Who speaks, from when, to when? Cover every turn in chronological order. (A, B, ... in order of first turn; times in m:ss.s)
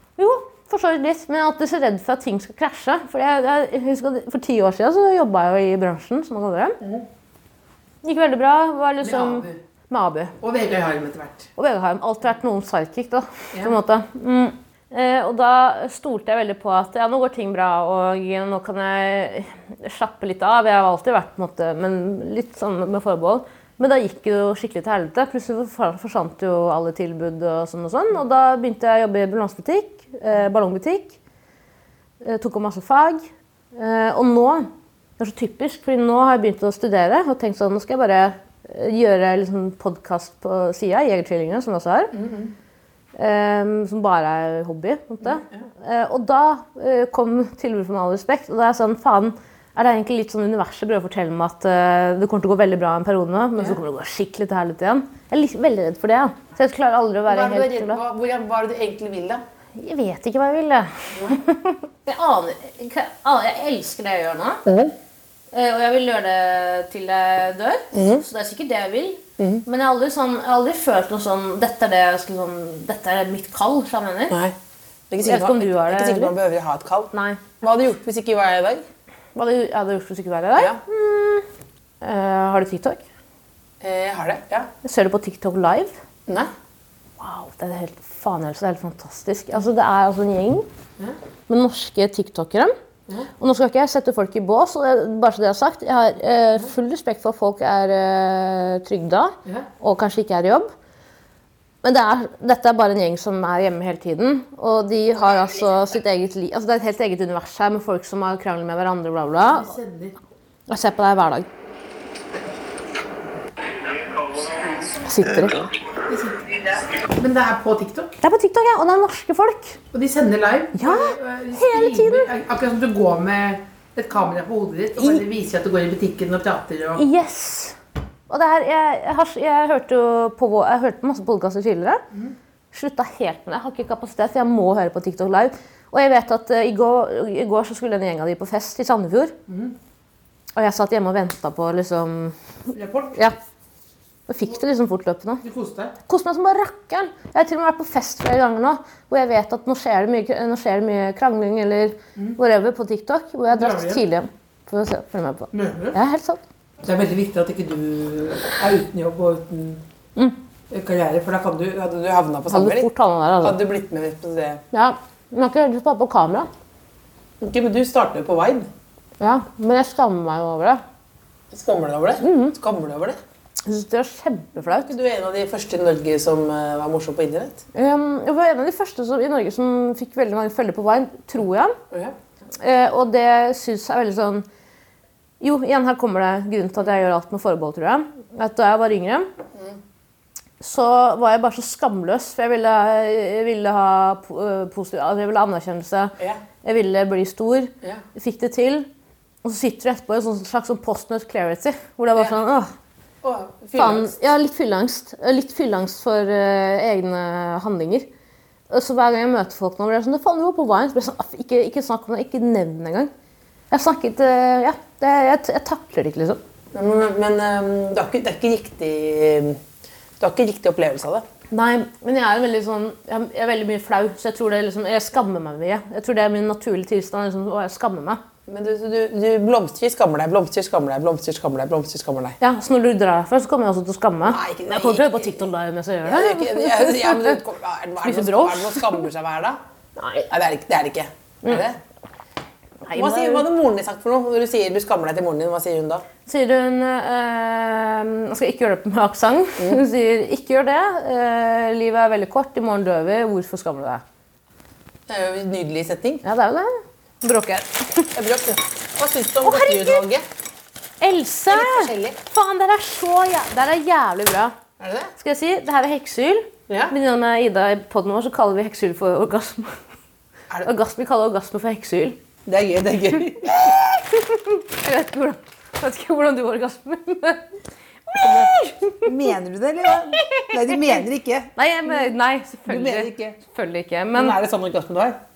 0:00.2-0:06.8 A
0:06.8-0:07.0 B
0:08.0-0:10.3 A
0:09.0-0:09.6 B
0:10.4-0:11.5 B
0:11.6-0:31.2 A
0:32.2-0:42.1 A
0:42.1-0:42.5 B
0:43.2-0:58.0 A
0:45.2-0:45.6 B
0:57.3-0:59.4 B
0:59.8-1:04.6 A
1:04.6-1:04.9 B
1:05.5-1:14.4 A
1:07.9-1:08.2 B
1:09.4-1:09.6 B
1:14.3-1:14.6 B
1:15.1-1:18.8 B
1:15.2-1:16.3 A
1:17.1-1:17.4 A
1:19.3-1:21.4 A
1:20.6-1:20.8 B
1:22.0-1:23.0 A
1:23.8-1:24.7 B
1:24.8-1:26.0 A
1:27.2-1:30.6 A
1:31.5-1:32.7 A
1:33.4-1:40.7 A
1:41.8-1:49.7 A
1:49.4-1:50.2 B
1:50.7-1:51.4 A
1:55.0-1:55.7 A
1:55.9-1:58.2 B
1:58.2-1:59.8 A
1:59.9-2:07.0 B
2:00.7-2:02.3 A
2:07.0-2:07.8 A
2:08.3-2:12.0 A
2:12.7-2:19.4 A
2:19.5-2:19.7 B
2:20.6-2:22.4 A
2:22.7-2:23.2 B
2:24.3-2:25.4 A
2:25.4-2:25.9 B
2:26.0-2:36.4 A
2:33.5-2:34.0 B
2:35.5-2:36.0 B
2:36.8-2:39.8 B
2:40.7-2:42.9 B
2:42.5-2:43.6 A
2:43.4-2:44.6 B
2:44.7-2:46.5 A
2:47.4-2:48.7 B
2:49.2-2:50.8 A
2:51.5-2:53.2 B
2:52.2-2:52.5 A
2:53.6-2:54.9 A
2:54.7-2:57.6 B
2:57.7-3:01.8 A
3:02.6-3:04.4 A
3:05.4-3:09.3 A
3:10.6-3:18.9 A
3:19.4-3:22.7 A
3:23.2-3:24.2 B
3:23.8-3:28.1 A
3:28.7-3:33.1 A
3:33.7-3:36.4 A
3:36.7-3:39.6 B
3:40.2-3:41.2 B
3:41.5-3:48.2 A
3:48.5-3:52.4 B
3:52.4-3:57.4 A
3:54.2-3:55.5 B
3:56.0-3:59.6 B
3:58.0-3:59.0 A
4:00.0-4:00.3 A
4:00.3-4:01.8 B
4:02.8-4:03.4 A
4:02.9-4:06.0 B
4:06.2-4:14.0 A
4:15.1-4:16.2 B
4:16.2-4:18.1 A
4:18.1-4:20.2 B
4:19.4-4:20.0 A
4:21.0-4:24.5 A
4:21.5-4:22.2 B
4:24.8-4:25.1 B
4:25.2-4:29.8 A
4:26.7-4:26.9 B
4:30.6-4:32.2 A
4:32.4-4:34.0 B
4:34.3-4:37.4 A
4:38.1-4:39.1 A
4:38.2-4:38.5 B
4:39.0-4:42.1 B
4:40.1-4:40.9 A
4:41.6-4:44.4 A
4:42.6-4:43.4 B
4:44.1-4:45.2 B